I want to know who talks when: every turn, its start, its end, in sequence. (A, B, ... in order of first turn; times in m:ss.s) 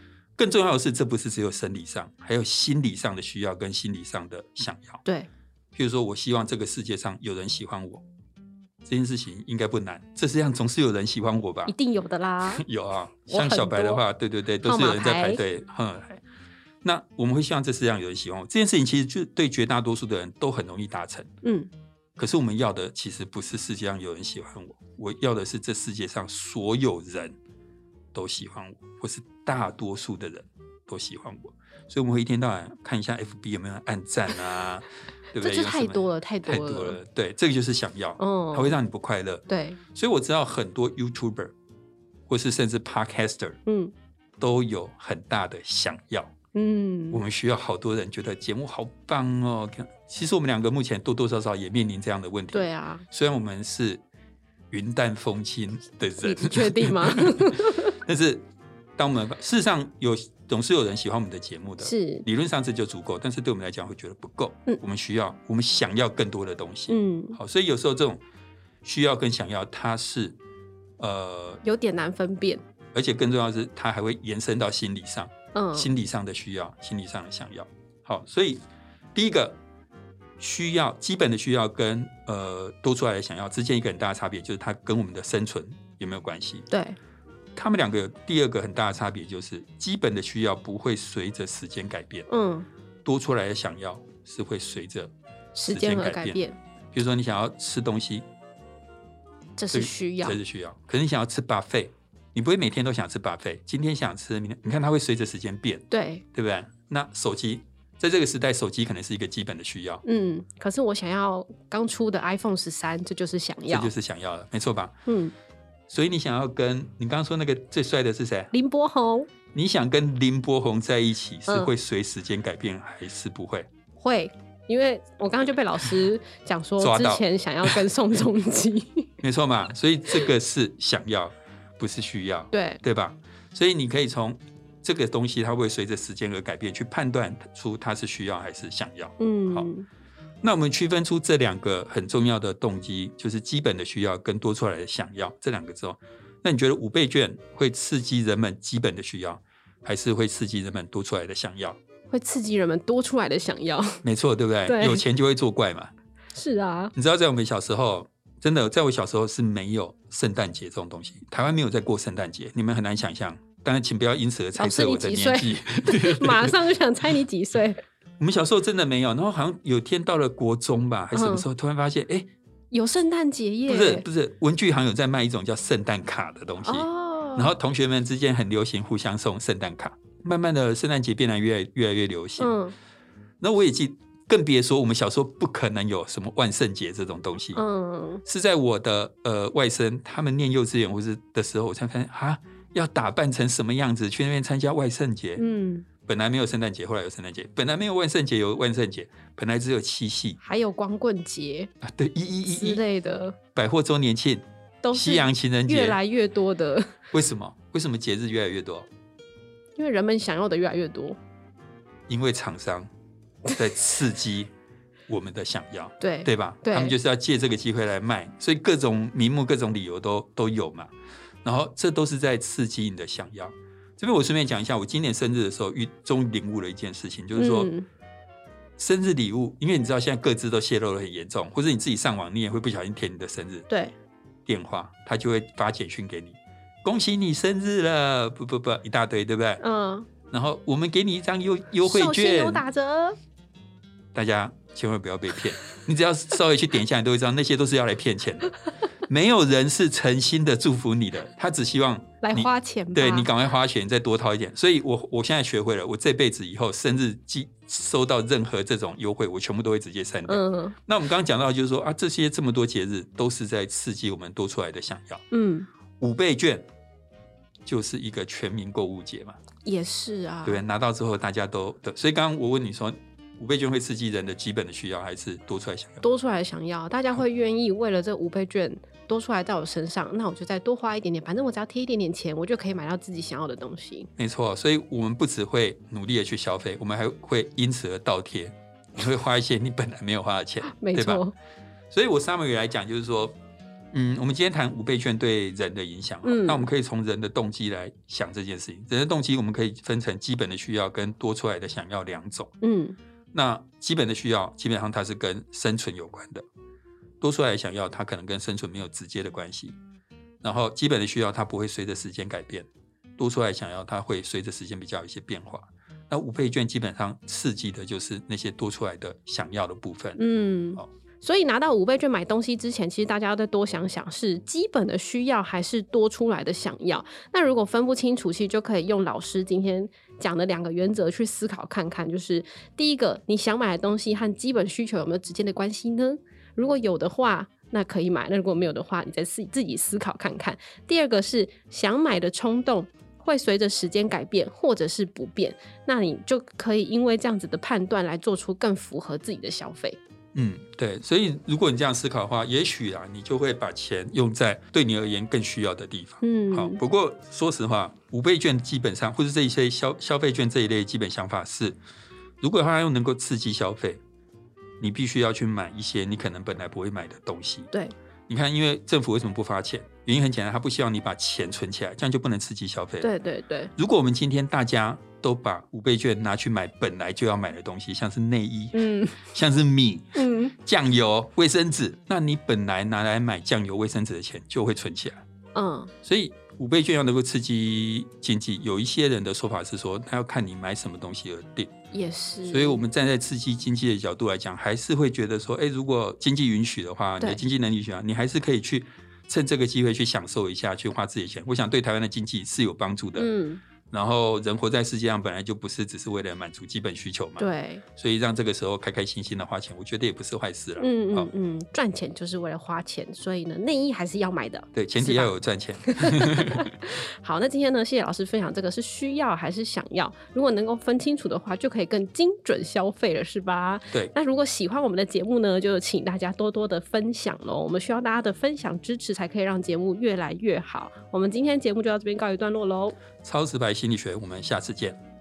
0:00.4-0:05.0 A
0:05.7-0:08.0 A
0:08.8-0:11.7 A
0:11.7-0:12.6 B
0:12.5-0:16.2 A
0:13.3-0:14.0 B
0:14.6-0:15.4 B
0:16.8-0:21.3 A
0:21.4-0:21.7 B
0:22.2-0:27.4 A
0:28.1-0:41.5 A
0:35.4-0:37.0 B
0:38.2-0:38.8 B
0:39.5-0:39.8 B
0:42.3-0:43.6 A
0:43.7-0:43.9 B
0:44.4-0:46.3 A
0:46.5-0:47.2 B
0:47.1-0:54.0 A
0:52.5-0:53.1 B
0:54.7-0:58.5 A
0:56.2-0:57.9 B
0:59.0-1:08.2 A
1:01.8-1:02.3 B
1:06.9-1:07.4 B
1:08.8-1:10.4 A
1:11.0-1:11.6 A
1:11.6-1:12.6 B
1:12.9-1:18.6 A
1:15.5-1:15.9 B
1:19.2-1:19.6 A
1:20.4-1:26.7 A
1:26.7-1:27.0 B
1:27.6-1:32.3 A
1:32.3-1:32.7 B
1:33.0-1:35.1 A
1:35.6-1:36.6 B
1:35.7-1:36.4 A
1:36.9-1:38.3 A
1:39.6-1:40.4 B
1:39.7-1:50.0 A
1:45.9-1:46.2 B
1:50.0-1:53.9 B
1:53.7-1:54.9 A
1:55.1-1:55.3 B
1:55.9-1:58.5 A
1:58.5-1:59.3 B
1:59.5-2:03.7 A
2:04.0-2:09.1 B
2:06.8-2:07.8 A
2:09.2-2:19.7 A
2:12.5-2:12.8 B
2:19.2-2:19.9 B
2:20.4-2:31.8 A
2:32.1-2:34.0 B
2:34.0-2:35.9 A
2:34.7-2:35.0 B
2:36.4-2:36.9 B
2:36.9-2:46.6 A
2:44.6-2:47.8 B
2:48.2-2:52.3 A
2:51.1-2:51.5 B
2:52.7-2:54.1 B
2:53.7-3:02.5 A
2:56.6-2:57.6 B
3:02.4-3:02.8 B
3:03.4-3:07.6 A
3:07.6-3:08.2 B
3:08.2-3:15.4 A
3:15.4-3:15.9 B
3:16.1-3:20.4 A
3:20.4-3:21.7 B
3:21.8-3:22.8 A
3:22.5-3:23.4 B
3:23.5-3:26.0 A
3:24.8-3:27.0 B
3:27.1-3:28.9 A
3:29.8-3:31.2 B
3:32.1-3:32.9 A
3:33.5-3:34.5 A
3:35.1-3:40.9 A
3:36.0-3:37.0 B
3:41.4-3:47.7 A
3:47.4-3:47.9 B
3:48.8-3:53.7 A
3:53.7-3:53.9 B
3:54.5-3:59.6 A
3:59.6-4:00.1 B
4:00.3-4:02.6 A
4:01.8-4:03.2 B
4:04.1-4:08.5 A
4:09.1-4:25.2 A
4:12.2-4:13.3 B
4:20.3-4:20.8 B
4:25.3-4:25.7 B
4:26.0-4:26.7 A
4:27.7-4:29.4 A
4:29.6-4:30.6 B
4:30.4-4:36.0 A
4:36.0-4:44.1 B
4:44.2-4:51.2 A
4:50.6-4:51.3 B
4:51.9-4:53.4 A
4:53.9-5:02.5 A
4:56.2-4:56.7 B
5:02.6-5:03.0 B
5:03.3-5:06.4 A
5:07.2-5:09.8 A
5:10.4-5:20.2 A
5:20.2-5:50.0 B
5:50.3-6:01.8 A
5:56.2-5:56.8 B
6:02.4-6:04.0 A
6:04.8-6:07.7 A
6:08.3-6:13.1 A
6:13.0-6:13.7 B
6:13.8-6:25.2 A
6:18.8-6:19.2 B
6:20.2-6:20.5 B
6:25.6-6:25.9 B
6:26.0-6:31.7 A
6:31.9-6:32.8 B
6:32.5-6:43.3 A
6:37.2-6:37.4 B
6:43.2-6:43.6 B
6:43.9-6:51.3 A
6:47.4-6:47.8 B
6:50.8-6:55.3 B
6:54.7-6:56.7 A
6:55.8-7:13.0 B
7:13.2-7:15.0 A